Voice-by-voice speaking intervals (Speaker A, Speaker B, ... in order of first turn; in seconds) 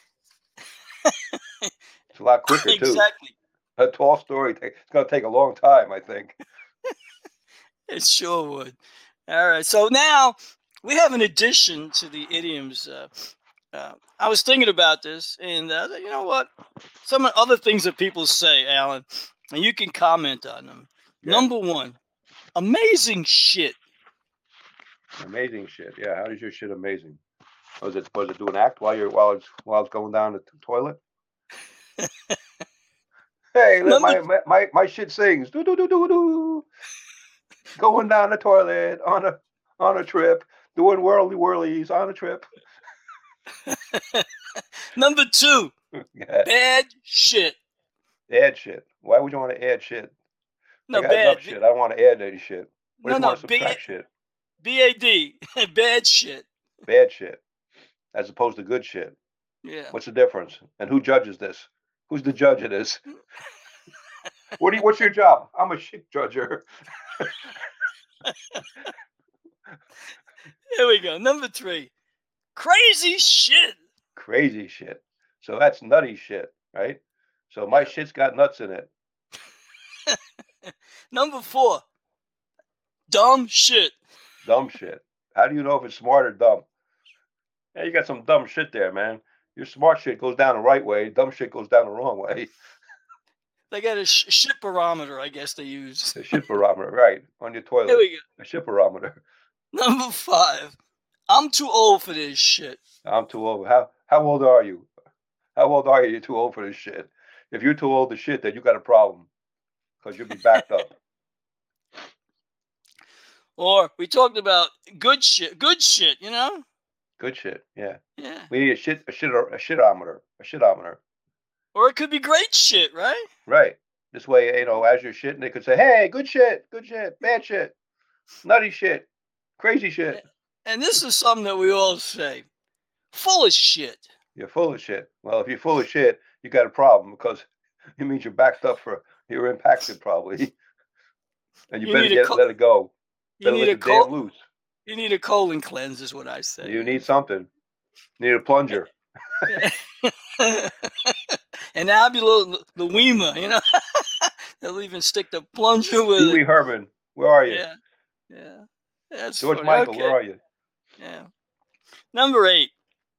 Speaker A: 1.0-1.7, 2.5-3.3, 7.9-8.8, 9.3-16.5, 17.0-22.0, 22.5-23.8, 33.9-34.2, 43.6-44.2, 44.9-45.7, 46.4-47.6, 50.9-51.5, 53.0-53.8, 54.6-56.5, 59.6-59.9, 68.3-68.6, 70.7-71.9, 72.5-73.8, 80.1-81.8, 83.1-83.9, 93.7-96.4, 97.9-98.2, 99.7-100.8, 101.3-102.8, 113.6-116.6, 118.2-118.5, 121.7-123.2, 130.1-132.5, 133.1-134.1, 141.8-142.4, 143.4-144.1, 144.8-147.0, 149.5-156.4, 157.5-157.7, 158.3-160.2, 161.0-161.3, 162.1-162.7
Speaker B: 2.1-3.1, 3.8-6.3, 21.2-21.5, 25.2-27.2, 27.8-31.0, 33.5-36.6, 37.8-42.5, 46.1-46.5, 48.3-50.1, 50.9-54.1, 56.9-57.4, 58.1-59.1, 59.9-63.0, 64.6-66.7, 74.2-78.9, 84.4-86.7, 87.7-92.5, 96.2-99.2, 103.0-104.9, 105.5-109.3, 110.0-111.0, 117.2-118.0, 118.5-121.0, 123.5-127.7, 128.4-129.1, 129.6-130.2, 134.3-140.5, 141.7-144.4, 146.6-147.5, 148.2-149.6, 156.2-157.6, 159.4-160.4